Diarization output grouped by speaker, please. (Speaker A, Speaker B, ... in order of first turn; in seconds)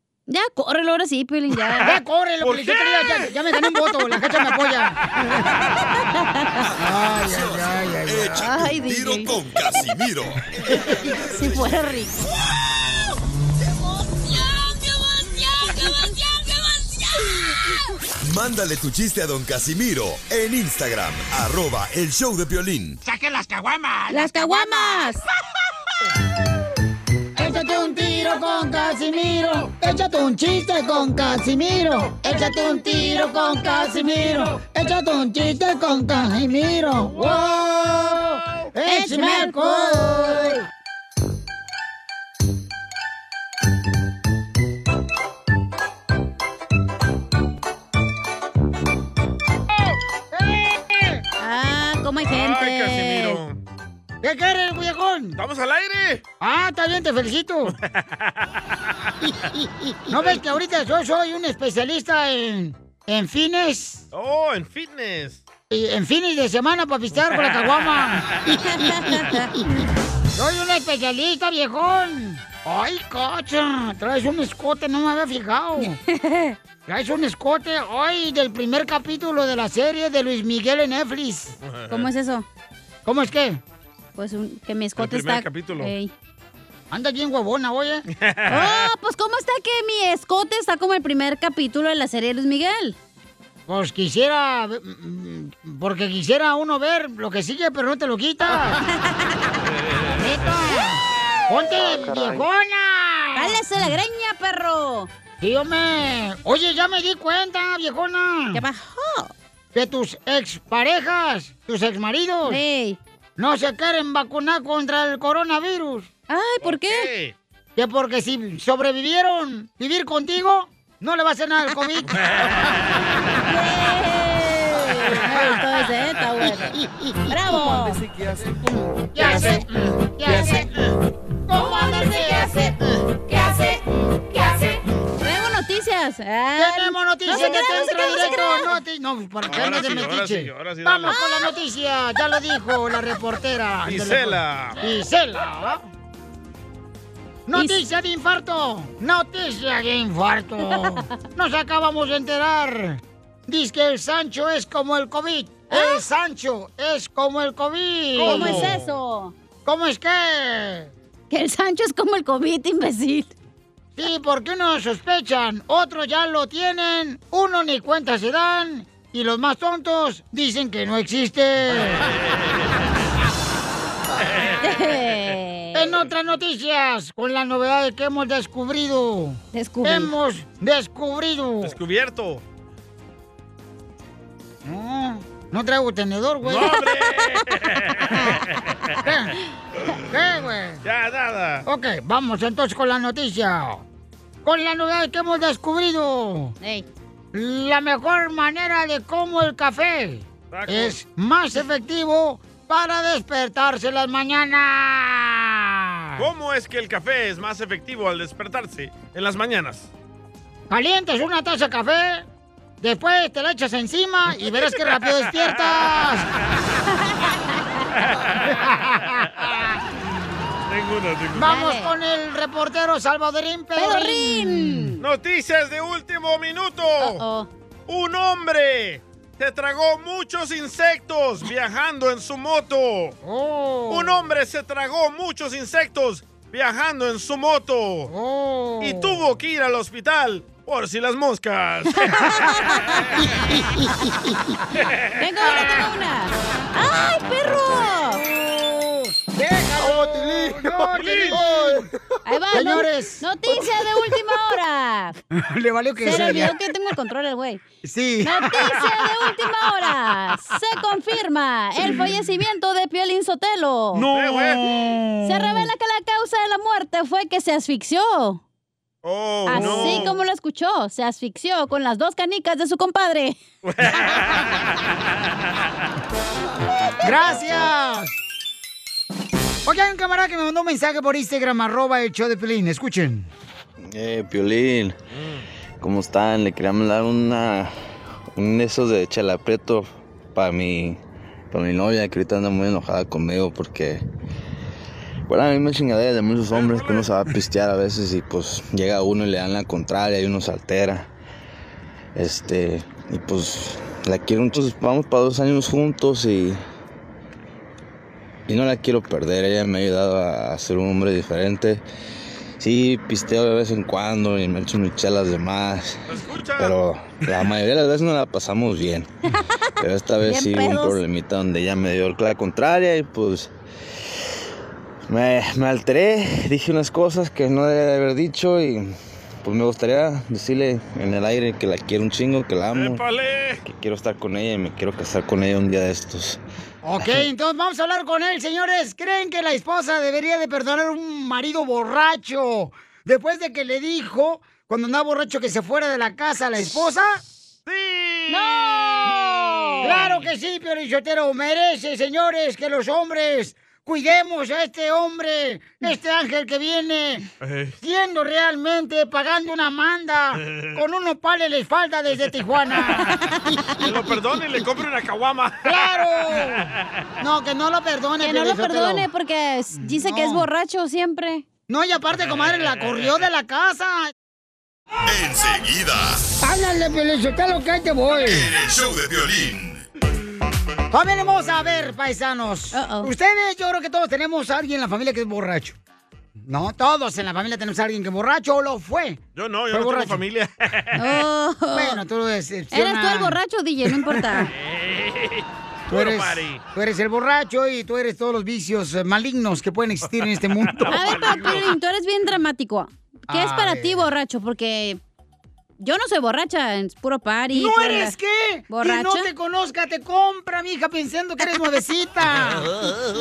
Speaker A: 0.3-1.9, 8.4-9.3, 10.9-12.2, 24.1-25.2, 32.2-34.5, 38.9-40.6, 51.4-53.4, 68.7-69.5, 75.8-76.6, 81.9-82.5, 84.2-86.1, 88.5-93.0, 98.9-99.2, 103.3-105.1, 108.5-109.3, 112.5-113.0, 116.3-117.1, 123.4-126.8, 127.3-128.0, 130.3-130.7, 131.6-138.8, 141.1-141.5, 147.5-147.8, 150.7-151.1, 155.7-156.0, 158.2-159.3, 161.3-163.3, 174.6-175.9, 179.5-180.1, 186.7-187.3, 196.6-196.9, 221.4-221.9, 223.8-225.0, 227.0-227.5, 242.4-243.0, 245.2-248.2, 252.2-255.2, 256.0-257.6, 258.2-264.1, 265.2-268.4, 269.5-273.4, 319.3-319.7, 320.2-321.0, 348.3-350.1, 363.0-363.9, 368.2-371.5, 382.7-383.1, 391.0-392.0, 392.7-394.5, 400.9-405.0, 405.8-408.1, 408.7-409.3, 411.4-411.8
Speaker B: 1.8-5.0, 6.8-8.5, 23.2-25.0, 27.4-40.6, 50.3-51.2, 54.2-55.4, 56.4-57.8, 60.1-64.0, 65.7-69.2, 70.4-76.0, 76.9-81.6, 83.0-83.6, 86.9-88.0, 93.7-98.8, 100.1-103.6, 105.4-108.6, 109.7-112.6, 113.4-116.1, 117.8-122.1, 128.7-130.7, 131.5-132.6, 136.6-145.8, 147.5-158.8, 159.7-160.9, 164.0-172.1, 175.7-181.8, 184.7-186.8, 189.1-189.3, 190.1-190.8, 191.7-193.8, 194.4-196.6, 197.3-206.2, 210.7-212.3, 212.8-216.3, 218.5-219.5, 221.4-224.9, 233.2-234.2, 238.1-239.2, 243.2-244.4, 248.1-251.9, 252.5-253.2, 255.3-256.6, 257.8-259.0, 263.9-265.7, 269.6-270.1, 277.0-278.1, 279.7-283.3, 336.8-347.2, 349.8-357.3, 357.8-363.2, 365.6-366.7, 367.2-369.1, 369.8-370.5, 371.7-374.1, 376.4-378.5, 380.9-385.8, 386.5-389.2, 389.7-390.2, 391.7-394.5, 395.9-401.6, 403.3-404.1, 407.5-412.7
Speaker C: 2.4-3.2, 52.2-53.6, 55.4-56.2, 57.7-58.4, 60.1-60.4, 64.1-65.4, 81.6-82.1, 85.0-85.9, 88.2-88.9, 116.6-117.3, 122.1-123.0, 137.3-138.4, 139.5-141.2, 143.9-144.8, 158.2-158.9, 181.6-182.4, 186.4-188.9, 190.8-191.7, 200.5-201.0, 206.2-209.9, 214.6-216.1, 218.1-218.5, 220.7-221.6, 225.0-227.2, 227.9-233.2, 233.9-238.1, 238.8-242.9, 250.9-251.4, 264.1-264.6, 269.0-270.2, 273.6-274.7, 285.1-285.5, 296.5-297.1, 316.1-316.8, 332.7-333.6, 347.7-350.3, 357.4-357.8, 360.4-360.8, 363.8-367.0, 372.3-373.1, 389.4-391.2, 394.5-396.6, 400.5-401.7
Speaker D: 7.0-11.7, 18.2-23.0, 375.1-376.2, 378.2-379.8
Speaker E: 283.8-285.0, 285.8-287.7, 288.4-291.0, 291.5-294.0, 295.3-301.1, 302.1-306.6, 308.5-311.8, 312.6-316.1, 316.6-319.1, 319.8-323.5, 325.1-333.0, 333.6-336.4